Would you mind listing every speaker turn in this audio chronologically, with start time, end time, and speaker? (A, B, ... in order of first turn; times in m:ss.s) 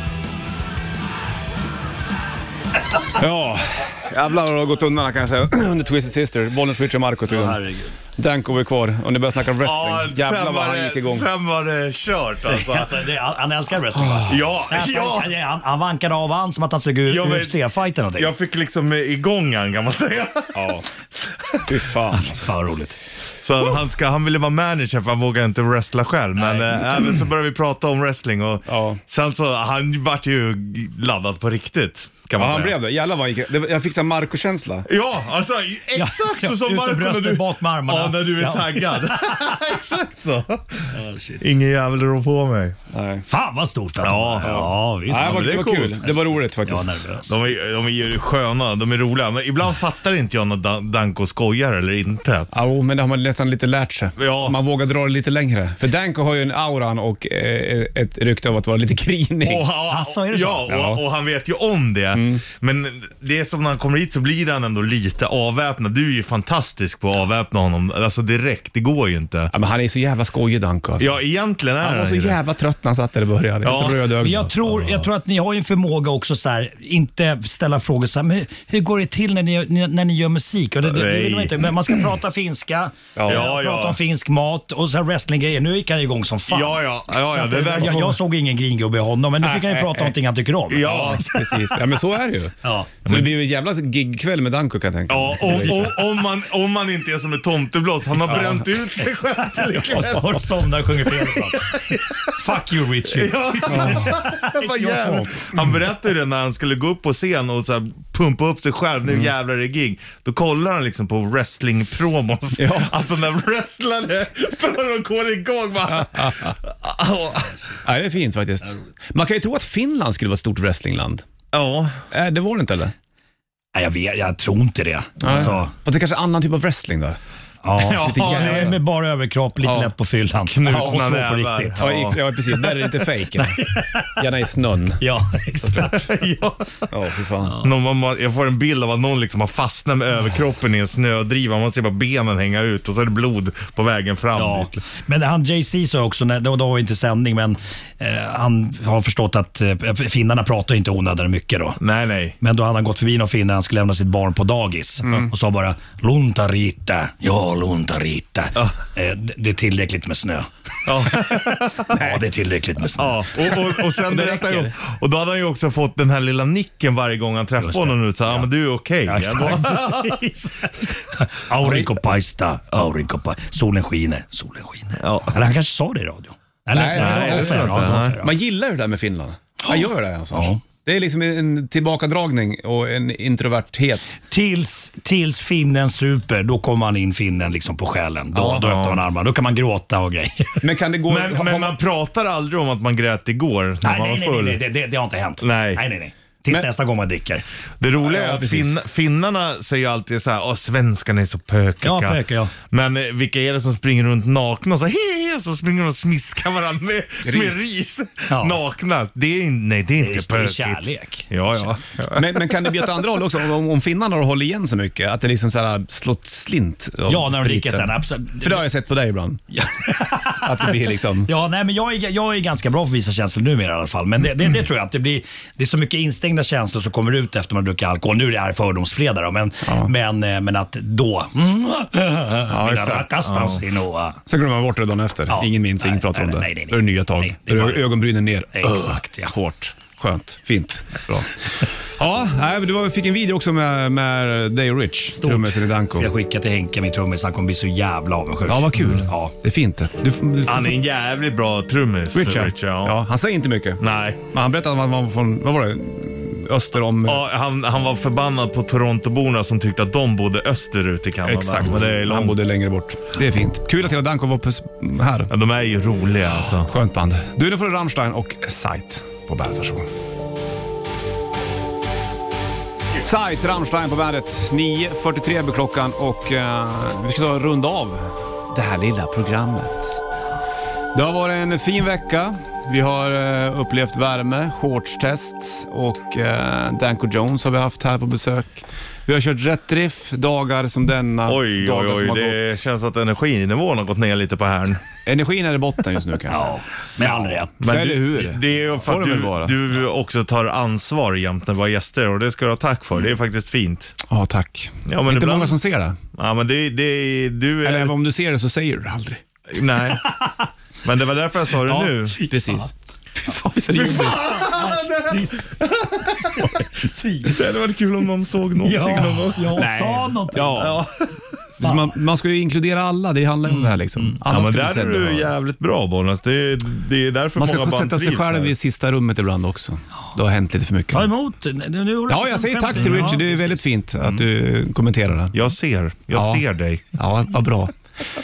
0:03.2-0:07.6 A
0:07.3-0:07.9 B
0:08.2-0:11.3 A
0:09.6-0:13.1 C
0:12.5-0:18.3 B
0:13.9-0:14.4 A
0:14.3-0:15.3 C
0:17.0-0:17.6 C
0:18.2-0:20.7 C
0:20.5-0:20.8 A
0:21.3-0:21.6 C
0:21.6-0:22.4 A
0:22.1-0:23.0 B
0:23.4-0:32.8 C
0:28.6-0:29.0 A
0:32.4-0:34.9 A
0:34.9-0:40.9 C
0:35.9-0:39.5 B
0:40.9-0:41.4 B
0:41.4-0:42.8 C
0:42.9-0:43.2 A
0:43.3-0:47.3 B
0:44.0-0:44.5 C
0:44.4-0:47.0 A
0:45.1-0:46.0 C
0:47.3-0:52.5 C
0:52.5-0:59.7 A
0:54.2-0:54.5 C
0:59.4-1:09.5 C
0:59.9-1:00.9 B
1:00.7-1:01.0 A
1:02.1-1:02.4 A
1:09.5-1:11.1 A
1:11.0-1:12.4 C
1:11.8-1:15.0 A
1:13.6-1:14.1 C
1:14.2-1:31.4 B
1:20.8-1:21.7 C
1:23.2-1:23.5 A
1:23.3-1:24.0 C
1:26.5-1:28.2 C
1:27.8-1:28.1 A
1:29.4-1:30.1 A
1:30.7-1:31.3 C
1:30.8-1:36.0 A
1:32.6-1:32.9 B
1:35.1-1:40.5 C
1:38.2-1:45.5 B
1:38.2-1:38.6 A
1:41.1-1:42.3 C
1:43.1-1:57.6 C
1:43.7-1:44.1 A
1:52.6-1:52.9 A
1:55.9-1:56.6 A
1:57.8-2:01.2 A
2:01.5-2:02.0 C
2:02.1-2:02.9 A
2:03.7-2:05.7 B
2:05.2-2:07.2 A
2:07.6-2:12.0 B
2:07.8-2:08.7 C
2:08.0-2:08.8 A
2:09.6-2:09.9 A
2:10.5-2:12.2 C
2:11.8-2:13.6 A
2:12.5-2:14.2 B
2:14.2-2:15.0 A
2:15.0-2:16.0 B
2:15.6-2:15.9 A
2:15.9-2:16.8 C
2:16.9-2:17.6 A
2:17.6-2:24.7 C
2:24.3-2:31.8 B
2:31.8-2:32.4 C
2:32.4-2:40.5 B
2:40.8-2:41.9 C
2:41.0-2:43.2 B
2:43.0-2:50.2 C
2:44.0-2:44.7 A
2:47.6-2:48.4 B
2:49.0-2:58.3 B
2:55.0-2:55.4 C
2:56.7-3:04.2 A
2:56.9-2:58.2 C
2:59.6-3:00.6 B
3:04.3-3:10.6 B
3:08.3-3:08.7 A
3:08.6-3:09.0 C
3:10.6-3:11.8 A
3:11.1-3:14.6 C
3:13.8-3:17.4 B
3:15.4-3:15.8 C
3:17.8-3:32.8 C
3:18.0-3:18.8 A
3:21.8-3:22.5 B
3:27.2-3:27.6 A
3:28.3-3:28.6 B
3:30.0-3:31.4 B
3:32.1-3:39.4 A
3:37.1-3:38.6 B
3:39.5-3:40.7 B
3:40.3-3:41.3 A
3:41.3-3:54.2 B
3:49.6-3:49.9 A
3:52.5-3:53.3 A
3:53.2-3:53.6 C
3:54.2-4:06.1 A
3:55.3-3:57.9 B
3:58.6-3:59.3 B
4:05.1-4:09.3 B
4:08.5-4:10.8 A
4:08.8-4:09.0 C
4:10.5-4:13.0 C
4:12.1-4:17.2 A
4:13.8-4:14.2 C
4:17.0-4:22.4 C
4:21.2-4:25.3 A
4:25.3-4:26.7 C
4:26.4-4:29.9 A
4:33.0-4:40.0 A
4:40.9-4:52.6 A
4:51.3-4:54.8 C
4:55.0-4:59.5 A
4:56.3-4:57.7 B
4:57.6-5:04.0 C
5:04.1-5:06.0 A
5:04.8-5:05.6 C
5:06.1-5:07.9 C
5:07.6-5:09.2 A
5:09.5-5:10.2 C
5:10.0-5:10.3 B
5:10.8-5:12.2 C
5:11.7-5:14.4 A
5:12.2-5:12.6 B
5:13.7-5:16.4 C
5:13.9-5:17.3 B
5:17.2-5:19.6 C
5:18.6-5:20.6 B
5:19.6-5:20.8 A
5:20.5-5:21.1 C
5:21.6-5:25.3 A
5:23.4-5:24.2 B
5:24.3-5:28.5 C
5:27.4-5:31.1 A
5:30.9-5:34.2 B
5:32.1-5:35.4 A
5:35.3-5:36.8 C
5:36.1-5:36.4 A
5:36.9-5:37.7 A